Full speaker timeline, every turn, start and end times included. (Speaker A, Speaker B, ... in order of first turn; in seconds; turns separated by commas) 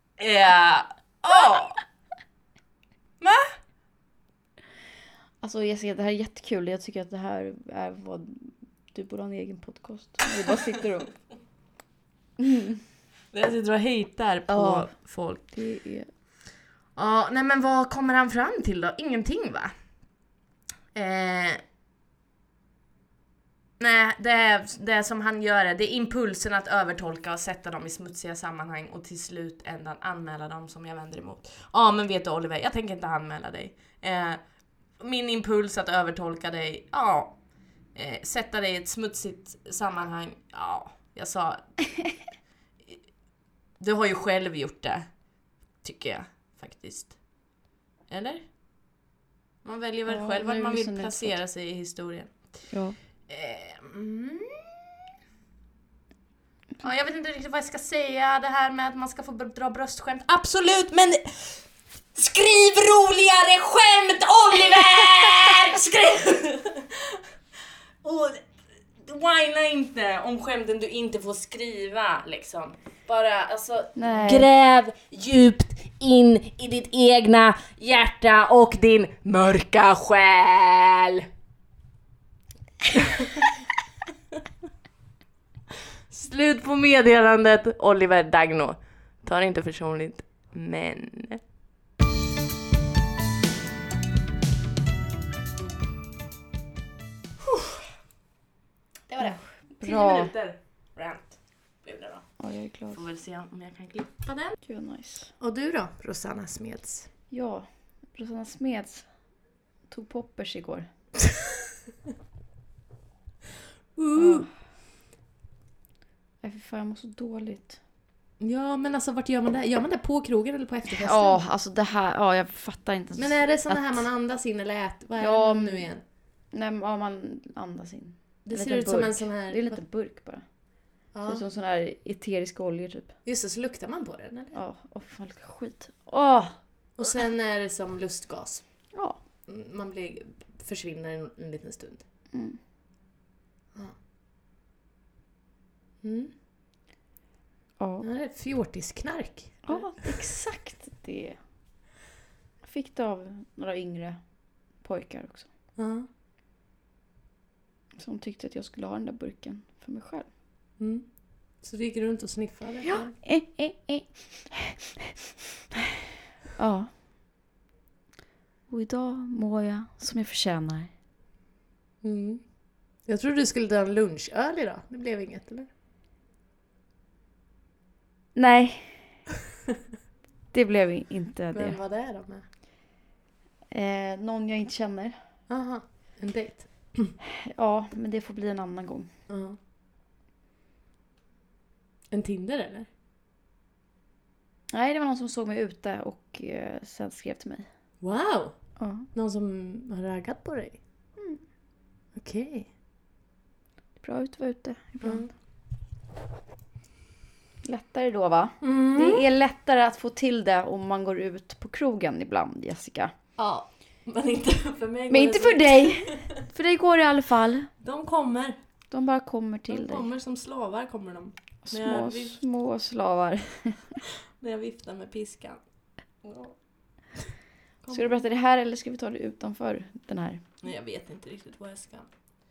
Speaker A: 0.2-1.8, Speaker A: 3.2-3.5, Speaker B: 5.4-11.1, Speaker B: 12.4-12.8, Speaker A: 13.3-15.4, Speaker B: 14.5-14.9, Speaker B: 15.5-16.1, Speaker A: 16.9-19.7, Speaker A: 20.9-21.6, Speaker A: 23.8-34.4, Speaker A: 35.0-37.4, Speaker A: 37.9-41.7, Speaker A: 43.8-45.0, Speaker A: 45.8-47.1, Speaker A: 48.1-48.4, Speaker A: 49.6-52.3, Speaker B: 50.1-51.4, Speaker B: 52.7-53.0, Speaker A: 53.3-55.1, Speaker A: 56.8-61.6, Speaker A: 62.1-67.2, Speaker A: 68.0-68.4, Speaker A: 69.0-81.3, Speaker B: 74.0-74.5, Speaker A: 82.9-83.5, Speaker A: 86.1-91.4, Speaker A: 97.4-97.8, Speaker A: 99.1-102.2, Speaker B: 99.2-100.3, Speaker B: 102.4-103.0, Speaker A: 102.9-104.6, Speaker B: 104.6-105.3, Speaker A: 105.4-107.1, Speaker B: 107.3-109.1, Speaker B: 109.9-110.9, Speaker A: 114.0-114.5, Speaker B: 114.2-114.5, Speaker B: 116.4-117.8, Speaker A: 118.4-121.4, Speaker B: 120.9-124.0, Speaker A: 123.2-126.0, Speaker B: 125.2-125.9, Speaker B: 126.5-130.4, Speaker A: 128.4-129.8, Speaker A: 131.1-131.4, Speaker B: 131.3-133.1, Speaker A: 133.2-134.5, Speaker B: 134.5-136.5, Speaker A: 137.0-138.6, Speaker A: 139.5-142.0, Speaker B: 142.3-142.6, Speaker A: 146.0-146.3, Speaker B: 147.8-148.1, Speaker A: 148.0-149.8, Speaker B: 149.7-151.4, Speaker B: 152.6-154.2, Speaker B: 154.8-155.5, Speaker A: 155.8-156.1, Speaker B: 158.0-160.3, Speaker A: 160.8-161.0, Speaker A: 161.6-163.1, Speaker B: 162.8-165.0, Speaker B: 166.6-166.9, Speaker B: 168.7-170.9, Speaker A: 172.0-172.4, Speaker A: 173.1-175.7, Speaker B: 178.3-179.1, Speaker B: 180.5-181.8, Speaker A: 181.5-182.4, Speaker B: 183.7-185.2, Speaker A: 185.5-187.1, Speaker B: 187.2-189.1, Speaker A: 189.3-189.6, Speaker A: 192.1-192.9, Speaker B: 194.7-197.7, Speaker A: 198.0-198.5, Speaker B: 198.8-199.1, Speaker A: 199.1-200.8, Speaker A: 202.1-202.7, Speaker B: 204.0-205.3, Speaker A: 205.0-205.3, Speaker B: 207.6-213.1, Speaker A: 208.6-209.2, Speaker A: 213.4-216.4, Speaker B: 215.1-217.7, Speaker A: 217.8-218.6, Speaker B: 218.9-220.1, Speaker A: 219.7-222.4, Speaker B: 221.6-224.0, Speaker A: 224.0-225.6, Speaker A: 226.2-226.6, Speaker A: 227.8-228.2, Speaker B: 227.9-230.4, Speaker A: 230.6-232.1